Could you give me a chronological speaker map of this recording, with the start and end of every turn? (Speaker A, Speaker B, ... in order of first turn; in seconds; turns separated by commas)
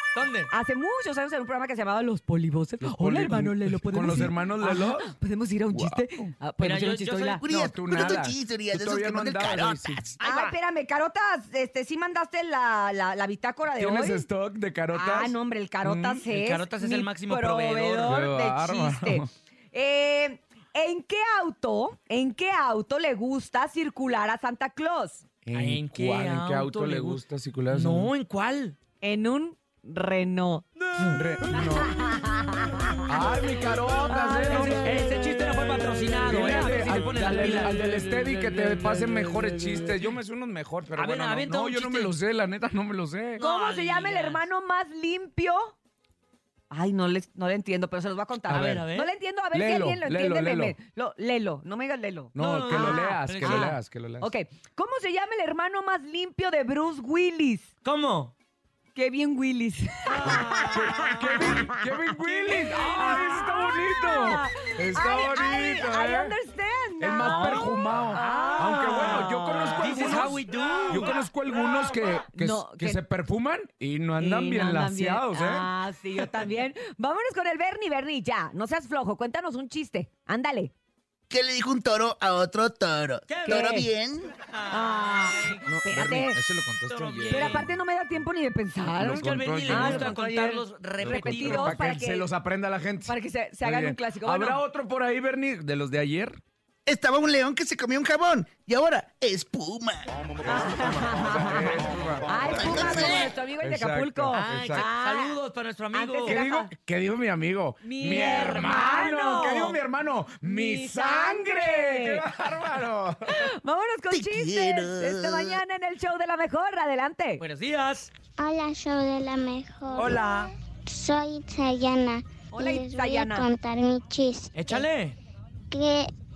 Speaker A: 0.1-0.5, Speaker B: 0.5-7.4, Speaker C: 2.8-5.1, Speaker C: 5.7-6.3, Speaker A: 6.6-7.4, Speaker D: 7.4-10.2, Speaker C: 7.5-10.0, Speaker A: 10.2-10.6, Speaker B: 10.2-14.3, Speaker C: 13.8-16.2, Speaker B: 14.9-25.2, Speaker A: 16.3-18.2, Speaker C: 18.0-19.3, Speaker C: 25.4-28.1, Speaker A: 25.5-28.8, Speaker B: 29.0-30.6, Speaker A: 30.8-31.2, Speaker C: 31.0-31.9, Speaker B: 31.5-34.9, Speaker C: 33.1-35.2, Speaker A: 34.3-38.0, Speaker C: 35.9-43.4, Speaker B: 36.9-37.6, Speaker A: 41.0-42.1, Speaker A: 43.4-44.4, Speaker B: 43.4-45.8, Speaker B: 46.7-57.7, Speaker A: 48.5-49.1, Speaker C: 48.5-48.8, Speaker C: 49.5-50.8, Speaker C: 52.4-54.3, Speaker A: 52.4-53.8, Speaker A: 57.8-58.3, Speaker B: 59.0-60.7, Speaker A: 60.1-61.7, Speaker C: 60.7-66.3, Speaker B: 61.4-61.6, Speaker A: 62.3-63.2, Speaker B: 62.5-70.1, Speaker C: 67.0-76.2, Speaker A: 67.2-71.2, Speaker B: 72.3-73.0, Speaker B: 74.2-80.7, Speaker D: 81.3-84.3, Speaker A: 83.3-83.7, Speaker B: 83.5-83.9, Speaker A: 84.3-85.7, Speaker B: 84.7-86.4, Speaker C: 85.7-87.7, Speaker A: 86.9-87.7, Speaker B: 87.3-92.3, Speaker C: 88.9-90.3, Speaker A: 89.0-91.8, Speaker C: 91.0-96.4, Speaker B: 93.1-94.6, Speaker D: 96.9-100.1, Speaker C: 100.5-104.9, Speaker B: 100.5-105.4, Speaker D: 102.5-103.3, Speaker A: 104.3-106.4, Speaker B: 105.9-106.7, Speaker C: 106.2-113.5, Speaker B: 107.8-109.8, Speaker A: 108.2-108.6, Speaker B: 110.4-112.3, Speaker B: 113.3-117.4, Speaker D: 114.1-115.6, Speaker A: 117.4-118.1, Speaker E: 118.4-124.9, Speaker A: 120.0-120.5, Speaker B: 122.5-123.5, Speaker A: 124.5-125.2, Speaker E: 125.7-126.1